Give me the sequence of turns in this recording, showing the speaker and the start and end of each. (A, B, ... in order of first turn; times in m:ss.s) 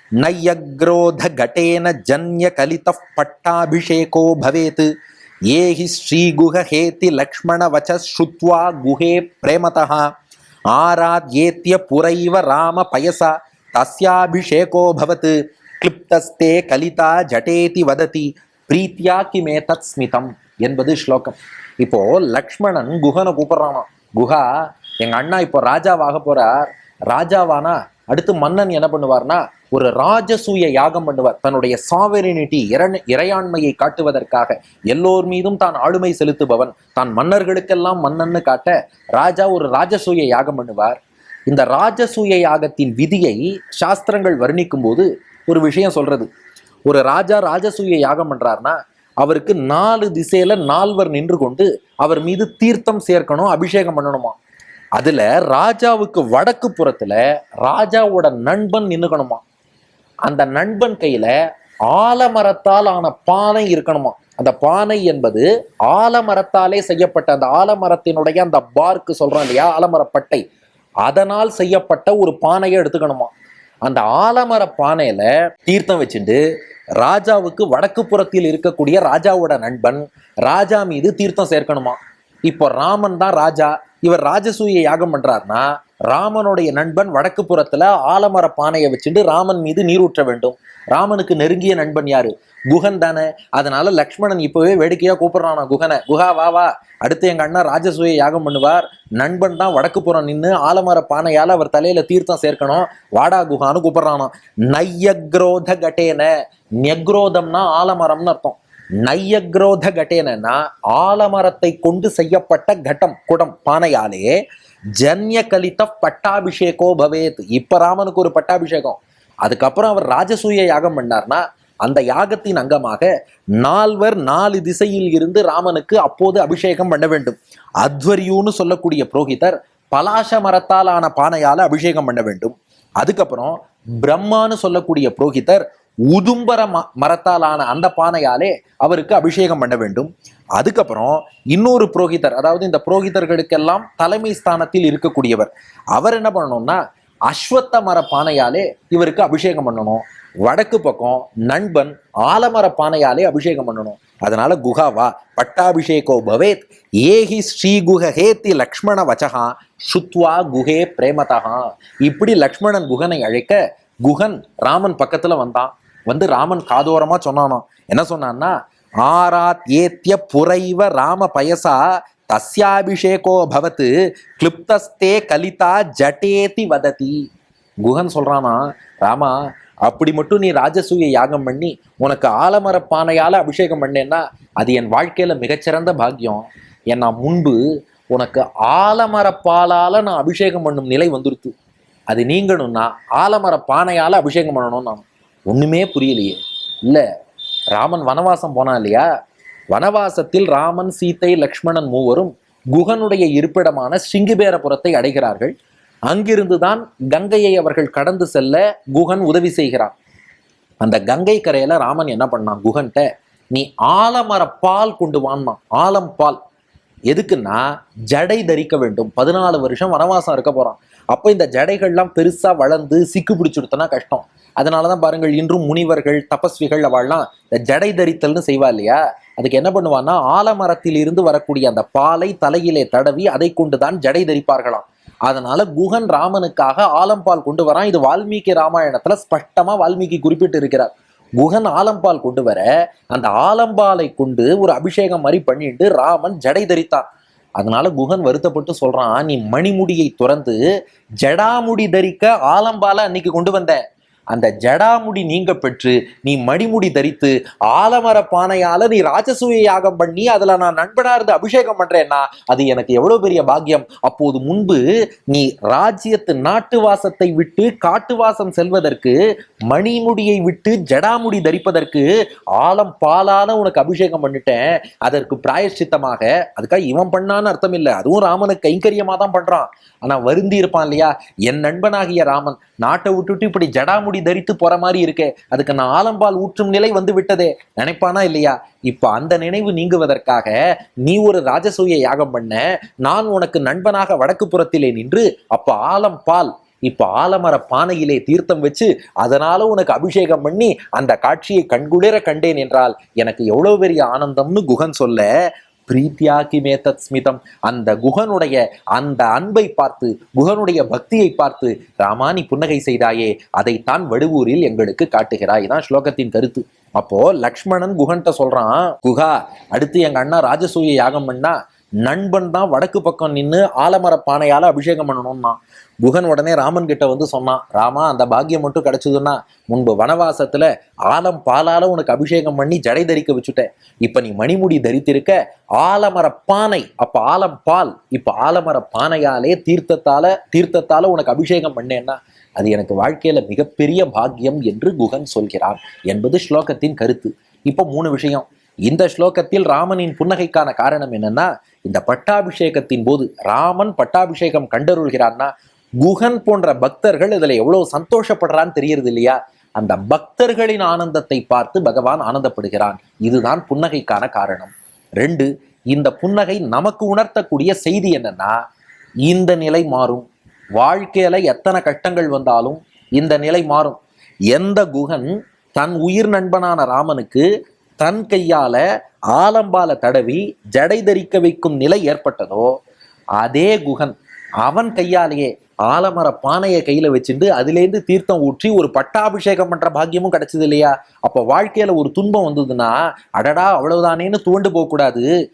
0:00.2-0:04.9 A
0:05.5-0:10.1 A
0:10.7-0:24.5 A
0:25.0-0:46.3 A
0:46.9-0:54.4 A
0:55.0-0:59.4 A
1:00.2-1:01.3 A
1:01.9-1:10.4 A
1:11.0-1:13.3 A
1:13.8-1:16.4 A
1:17.0-1:54.4 A
1:55.0-2:57.2 A
2:57.8-3:07.6 A
3:08.1-3:11.5 A
3:12.1-3:17.0 A
3:17.7-3:19.1 A
3:19.7-3:25.5 A
3:26.1-3:29.9 A
3:30.8-3:36.4 A
3:37.1-4:07.1 A
4:07.6-4:10.6 A
4:11.2-4:29.2 A
4:29.7-5:05.3 A
5:05.9-6:08.6 A
6:09.3-6:14.0 A
6:14.5-6:17.5 A
6:18.0-6:22.7 A
6:23.4-6:35.3 A